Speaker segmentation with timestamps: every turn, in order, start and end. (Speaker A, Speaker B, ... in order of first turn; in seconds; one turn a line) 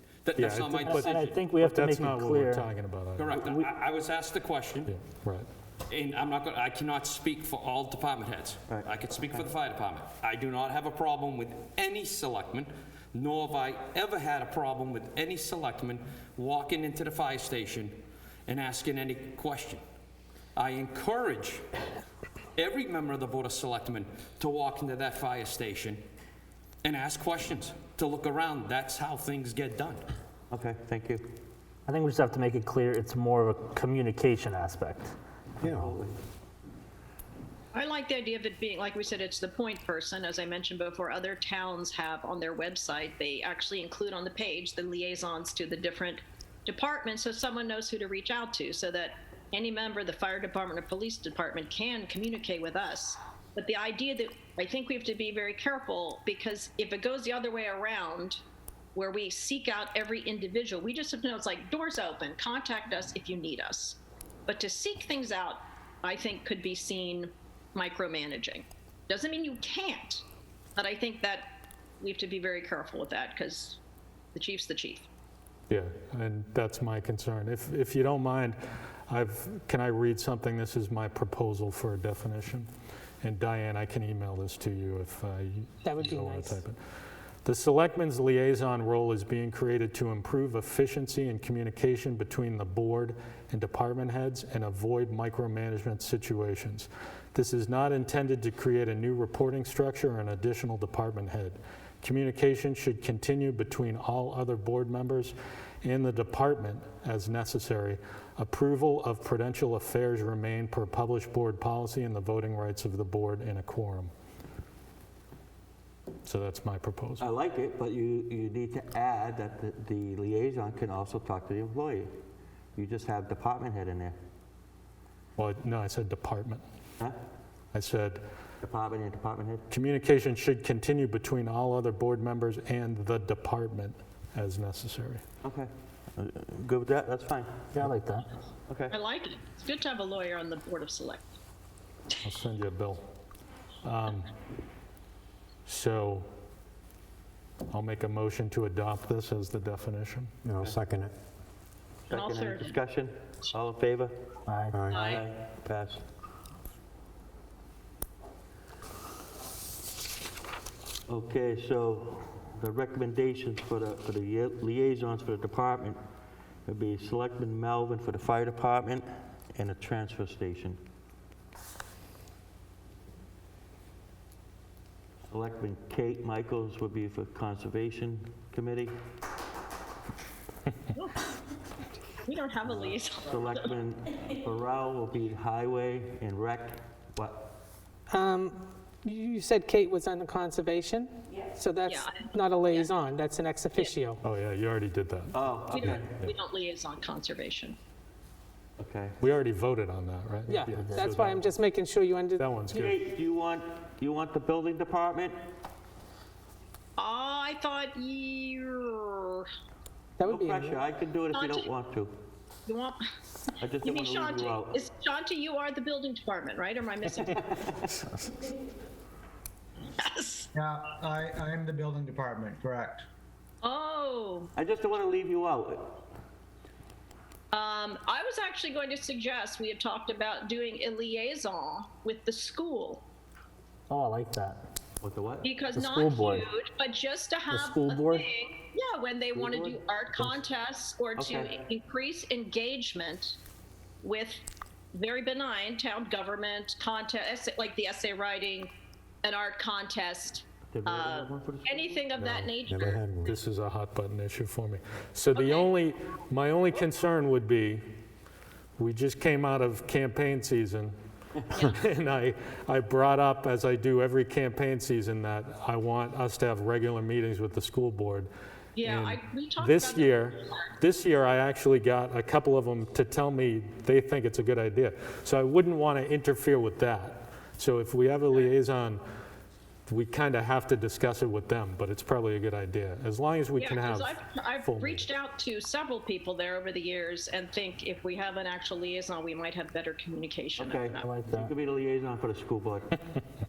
Speaker A: 0.2-1.4
Speaker B: 0.4-3.4
Speaker C: 0.9-2.7
Speaker A: 3.2-4.9
Speaker B: 4.9-5.5
Speaker A: 5.9-19.8
Speaker A: 20.6-21.6
Speaker A: 22.6-26.0
Speaker A: 26.8-30.0
Speaker D: 30.5-31.3
Speaker C: 31.9-35.1
Speaker D: 35.6-36.2
Speaker E: 37.7-58.4
Speaker E: 59.0-70.2
Speaker E: 70.8-73.8
Speaker E: 74.3-75.1
Speaker B: 75.7-78.6
Speaker B: 79.1-82.7
Speaker B: 83.2-86.8
Speaker F: 85.8-86.6
Speaker B: 87.5-114.1
Speaker B: 116.3-117.3
Speaker D: 117.2-122.1
Speaker D: 122.8-124.2
Speaker B: 125.4-126.6
Speaker B: 127.7-128.2
Speaker D: 128.6-129.7
Speaker B: 129.7-135.2
Speaker D: 135.4-137.9
Speaker C: 137.8-138.3
Speaker D: 138.7-139.0
Speaker E: 138.9-141.3
Speaker B: 142.2-143.0
Speaker B: 143.8-144.3
Speaker B: 145.7-146.3
Speaker B: 147.7-150.3
Speaker G: 150.4-151.1
Speaker E: 152.1-152.8
Speaker D: 152.1-154.1
Speaker C: 154.5-154.8
Speaker G: 154.7-155.0
Speaker E: 154.8-155.2
Speaker D: 154.9-156.0
Speaker D: 161.1-166.0
Speaker D: 166.7-170.8
Speaker D: 175.3-178.9
Speaker E: 180.9-181.2
Speaker E: 182.2-183.7
Speaker D: 183.2-187.5
Speaker F: 188.1-194.2
Speaker E: 191.9-192.9
Speaker B: 194.2-196.1
Speaker D: 195.3-196.2
Speaker E: 195.7-197.8
Speaker D: 198.8-199.2
Speaker B: 199.2-201.6
Speaker F: 200.5-202.9
Speaker C: 200.7-201.2
Speaker B: 202.4-202.9
Speaker D: 202.7-205.4
Speaker E: 207.0-209.5
Speaker F: 210.2-210.8
Speaker D: 210.2-212.1
Speaker E: 211.3-211.7
Speaker E: 212.7-213.0
Speaker D: 213.6-214.8
Speaker E: 213.8-217.5
Speaker D: 217.3-217.9
Speaker E: 220.0-220.5
Speaker H: 220.5-223.1
Speaker E: 223.6-224.5
Speaker D: 224.6-226.0
Speaker E: 227.5-233.0
Speaker C: 233.9-234.6
Speaker D: 235.0-235.5
Speaker E: 235.4-243.4
Speaker C: 235.7-236.5
Speaker C: 237.5-238.3
Speaker D: 239.3-239.8
Speaker D: 241.2-241.5
Speaker E: 244.0-244.4
Speaker E: 244.9-248.7
Speaker E: 249.2-253.4
Speaker D: 250.7-252.2
Speaker G: 252.2-253.3
Speaker B: 253.2-257.8
Speaker E: 255.3-255.7
Speaker B: 258.8-260.9
Speaker E: 261.5-261.8
Speaker B: 261.6-268.3
Speaker E: 268.8-270.6
Speaker B: 268.8-279.0
Speaker B: 279.9-285.1
Speaker E: 283.6-291.2
Speaker D: 290.6-292.9
Speaker C: 291.0-291.5